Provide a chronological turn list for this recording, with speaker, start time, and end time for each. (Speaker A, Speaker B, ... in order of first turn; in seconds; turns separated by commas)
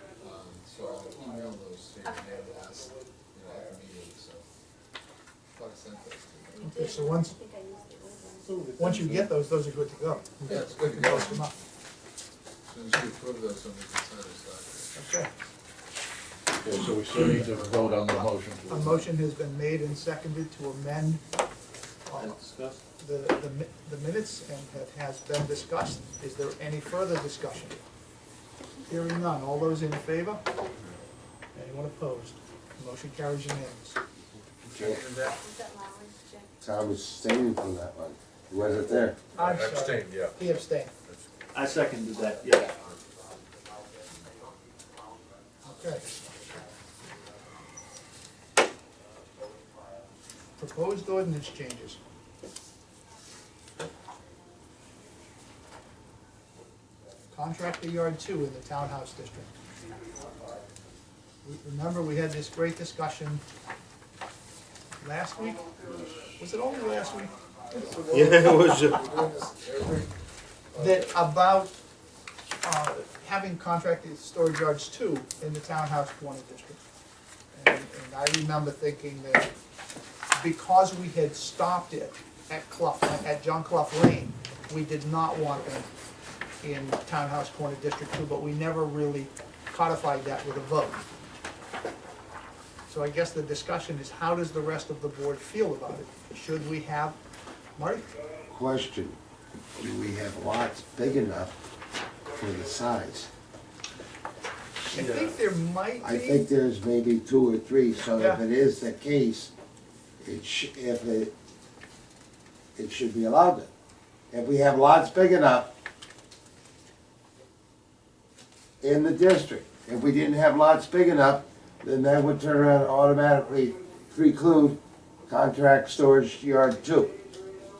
Speaker A: 0.2-4.4, Speaker A: 5.5-6.6, Speaker B: 6.5-8.6, Speaker C: 6.6-7.3, Speaker D: 8.5-9.3, Speaker C: 8.8-11.5, Speaker A: 10.4-11.3, Speaker B: 11.1-11.4, Speaker A: 12.7-14.9, Speaker C: 14.9-15.3, Speaker E: 16.6-18.9, Speaker C: 17.8-21.2, Speaker C: 22.1-22.4, Speaker D: 22.2-22.8, Speaker C: 23.0-27.8, Speaker C: 28.9-30.4, Speaker C: 31.5-34.0, Speaker F: 34.7-35.0, Speaker A: 34.7-35.4, Speaker B: 35.2-36.5, Speaker F: 36.6-39.2, Speaker C: 39.4-40.9, Speaker E: 39.5-40.3, Speaker D: 41.5-42.7, Speaker C: 45.6-46.0, Speaker C: 50.6-52.0, Speaker C: 57.3-59.5, Speaker C: 61.4-63.4, Speaker C: 65.0-65.7, Speaker C: 66.3-68.7, Speaker A: 67.7-70.1, Speaker D: 68.1-69.0, Speaker A: 70.7-71.1, Speaker C: 70.8-71.7, Speaker C: 72.6-76.8, Speaker C: 77.5-79.5, Speaker C: 80.3-85.9, Speaker C: 86.6-91.0, Speaker C: 92.9-97.2, Speaker C: 97.8-98.1, Speaker F: 98.5-99.2, Speaker F: 99.8-101.5, Speaker F: 102.3-103.3, Speaker C: 104.9-106.5, Speaker F: 106.0-109.5, Speaker C: 108.1-108.4, Speaker F: 110.2-111.3, Speaker F: 112.8-113.7, Speaker F: 114.3-115.7, Speaker F: 118.8-127.1